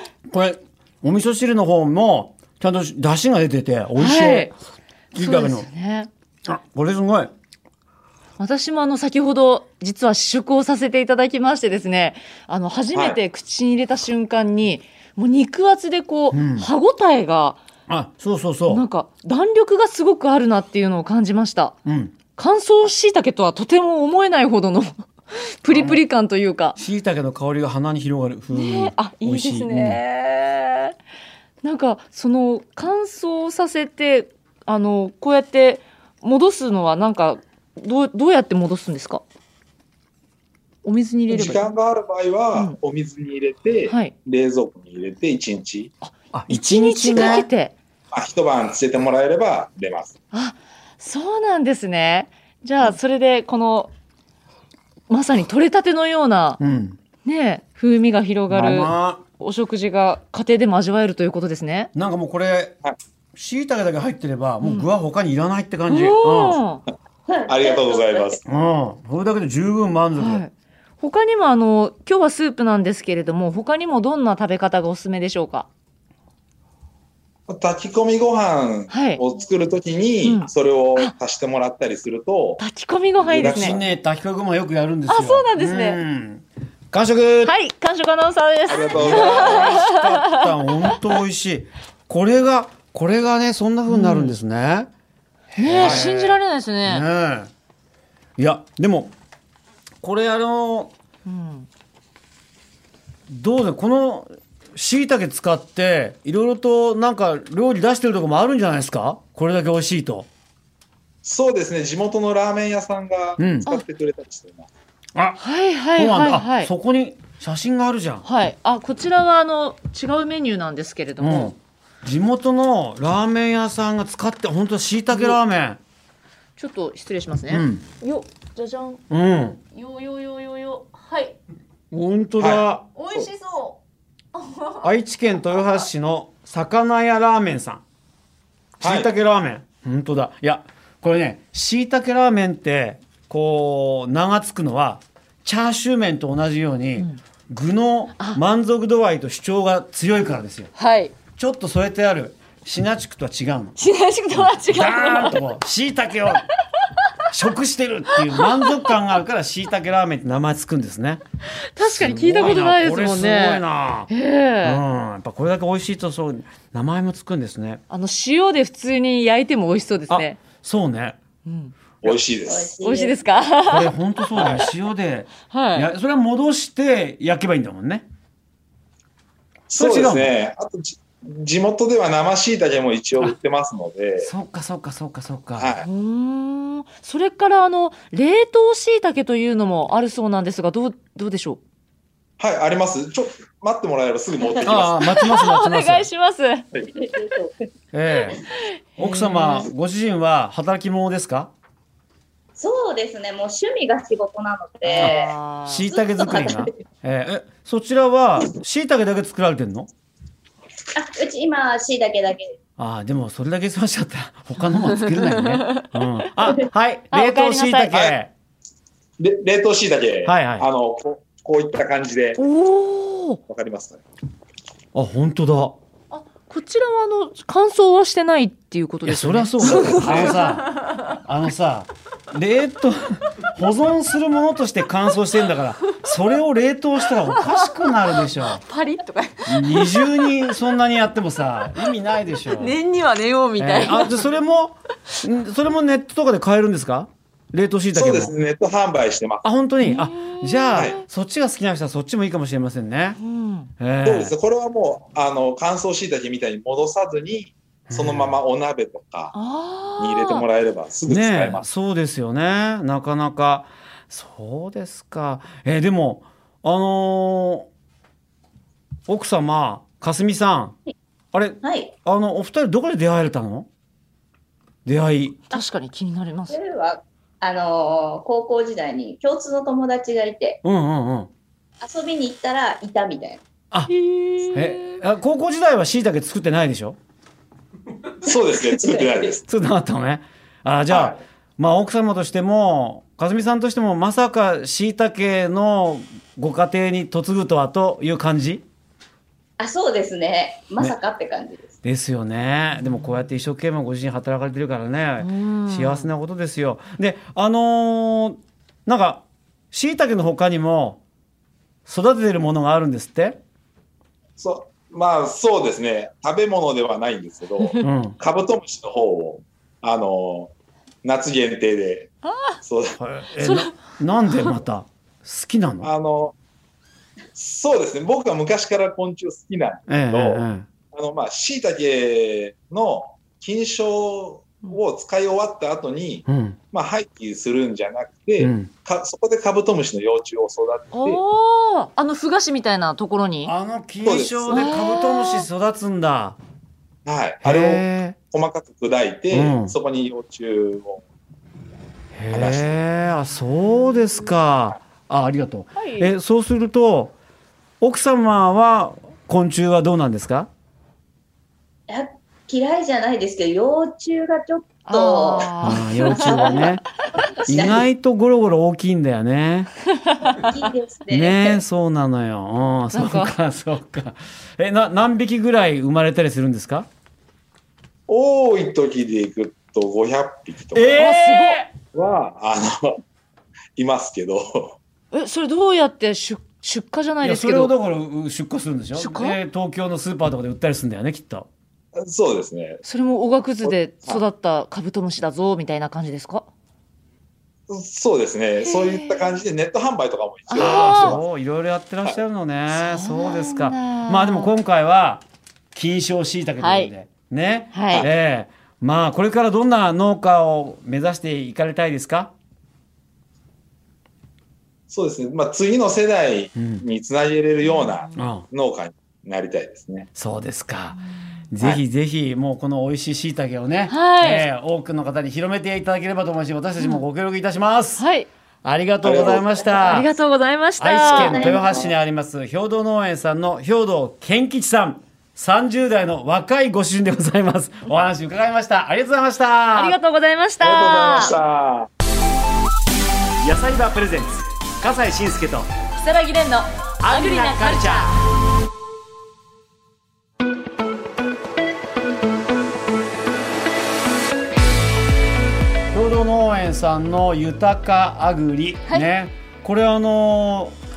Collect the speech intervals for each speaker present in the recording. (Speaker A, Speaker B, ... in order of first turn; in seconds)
Speaker A: 0.3-4.5, 5.1-5.7, 6.5-7.3, 16.3-16.7, 17.9-18.8, 21.9-22.1, 25.7-26.0, 26.8-30.0, 46.3-47.5, 56.6-57.0, 58.5-59.2, 62.0-62.8, 63.4-66.6, 68.5-70.4, 83.3-87.5, 89.0-94.9, 95.5-97.5, 98.4-99.1, 100.0-100.9, 103.3-110.3, 113.4-113.7, 115.2-115.4, 116.0-118.2, 121.2-125.8, 127.5-127.8, 129.1-129.6, 131.9-132.8, 134.8-137.8, 138.8-150.7, 151.4-153.8, 154.3-156.5, 157.3-161.2, 161.8-164.1, 164.6-167.8, 170.1-171.2, 173.7-178.1, 179.8-180.3, 184.2-185.7, 194.7-196.1, 197.9-198.4, 199.0-201.5, 205.7-209.9, 212.8-218.3, 220.3-220.7, 224.9-225.8, 229.1-238.6, 239.5-242.8, 243.6-248.3, 249.4-253.2, 253.8-254.3, 257.9-258.4, 261.1-267.7, 269.1-270.8, 271.3-273.7, 274.9-275.4, 280.6-281.3, 284.5-287.0, 289.4-298.6, 301.8-311.0, 311.9-313.4, 317.8-318.2, 323.0-325.9, 329.9-330.7, 336.3-336.6, 338.4-338.7, 343.4-346.4, 347.4-348.2, 349.3-349.7, 352.1-357.1, 357.8-360.5, 365.6-366.8, 367.5-369.7, 371.1-376.9, 380.8-381.7, 387.2-391.5, 400.6-412.3, 416.6-416.8, 418.2-418.4, 420.1-421.0, 421.5-428.0, 428.6-430.1, 430.8-440.0, 443.4-445.7, 447.0-448.1, 455.9-460.8
Speaker B: 4.0-4.5, 5.1-6.1, 8.4-17.6, 18.7-21.8, 22.4-26.8, 28.5-30.9, 31.6-39.2, 40.8-41.7, 46.0-47.8, 50.3-53.9, 55.1-56.6, 57.2-61.9, 64.6-64.9, 65.9-66.8, 70.2-75.7, 78.9-79.2, 80.2-81.1, 82.6-83.8, 85.1-86.0, 87.5-90.5, 93.9-94.4, 95.6-97.0, 101.2-101.7, 115.4-116.7, 118.2-121.5, 125.1-125.4, 126.6-129.0, 129.7-131.4, 132.9-133.8, 134.3-134.9, 150.8-151.1, 153.8-155.4, 158.3-158.8, 161.8-164.8, 167.9-170.4, 171.5-171.7, 172.8-173.9, 175.5-175.9, 185.8-191.6, 194.8-196.7, 199.0-199.7, 204.9-205.9, 214.8-215.8, 217.1-217.9, 222.4-223.4, 226.1-231.1, 237.1-240.4, 242.5-244.3, 249.8-251.0, 253.2-253.7, 259.3-260.4, 275.5-276.6, 283.9-285.0, 302.7-303.2, 305.2-306.1, 317.6-317.9, 322.3-322.6, 323.4-324.6, 340.9-343.5, 344.5-345.5, 355.8-356.1, 364.9-366.8, 370.1-370.4, 372.9-373.4, 380.9-381.6, 385.1-387.7, 388.9-389.4, 392.8-396.5, 398.6-399.4, 400.5-401.2, 402.7-404.5, 406.6-406.9, 407.7-408.1, 417.6-418.3, 423.9-424.5, 426.8-427.0, 428.0-428.3, 429.8-431.8, 439.7-441.4, 445.9-448.1
Speaker C: 12.9-13.2, 41.3-45.9, 47.1-47.4, 48.1-50.1, 67.5-68.4, 77.5-82.6, 83.2-83.8, 88.7-89.8, 95.8-96.1, 111.2-114.7, 132.4-133.3, 138.8-139.1, 172.0-172.7, 174.3-174.7, 179.7-184.3, 185.6-185.9, 192.4-195.0, 217.9-218.2, 219.2-222.4, 223.5-224.0, 229.7-230.4, 247.9-249.5, 254.0-259.3, 260.0-261.7, 288.2-289.4, 290.9-291.2, 314.4-320.5, 321.0-322.1, 322.6-323.0, 325.8-326.4, 327.4-341.2, 344.0-344.7, 347.1-351.0, 352.3-352.8, 378.1-381.1, 381.9-383.0, 383.8-384.8, 392.0-392.8, 393.6-394.2, 397.7-401.3, 414.9-420.1, 429.0-429.4, 440.6-441.9
Speaker D: 67.3-68.4, 172.4-173.2, 196.8-197.5, 202.6-205.3, 205.9-206.7, 210.9-212.6, 271.6-271.9, 276.5-280.6, 281.8-283.4, 288.3-289.3, 299.6-301.7, 361.9-366.7, 367.4-367.9, 370.3-371.6, 429.2-430.1, 431.1-431.9